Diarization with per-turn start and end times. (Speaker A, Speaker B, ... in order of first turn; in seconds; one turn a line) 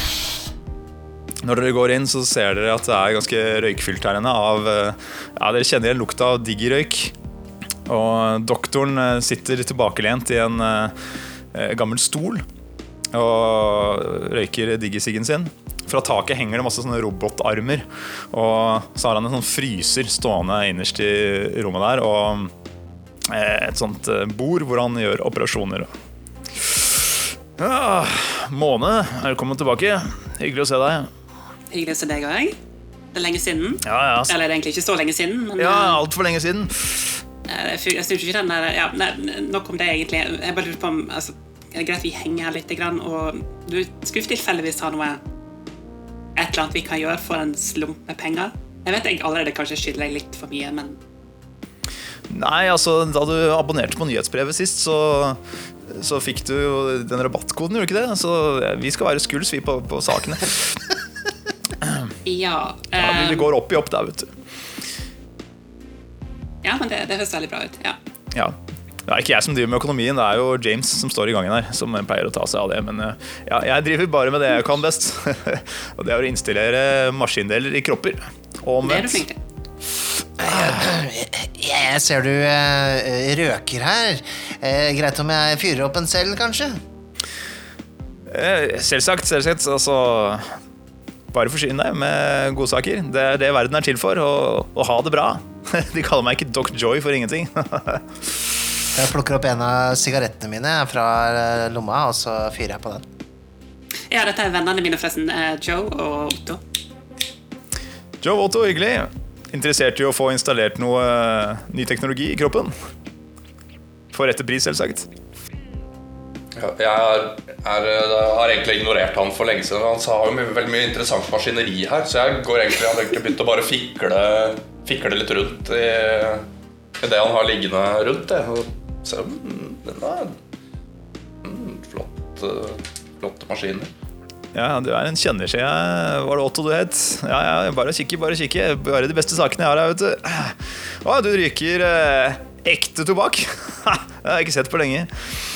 Speaker A: 1.4-7.1
Speaker A: 7.9-10.9
Speaker A: 11.5-12.4
Speaker A: 13.1-22.5
Speaker A: 23.3-25.9
Speaker A: 26.6-31.1
Speaker B: 31.7-32.5
Speaker B: 33.1-36.0
Speaker A: 33.8-34.3
Speaker A: 35.6-37.2
Speaker B: 37.5-45.2
Speaker B: 46.4-51.0
Speaker A: 52.3-60.8
Speaker A: 61.8-62.1
Speaker B: 62.2-63.5
Speaker A: 63.0-64.3
Speaker B: 66.6-68.0
Speaker A: 68.3-79.2
Speaker B: 78.8-79.4
Speaker C: 80.4-86.8
Speaker A: 88.3-90.5
Speaker A: 91.3-98.5
Speaker C: 98.9-103.0
Speaker B: 104.1-106.6
Speaker A: 108.2-112.7
Speaker A: 114.1-115.1
Speaker D: 116.5-126.4
Speaker D: 127.0-130.4
Speaker D: 131.4-133.9
Speaker A: 134.5-145.1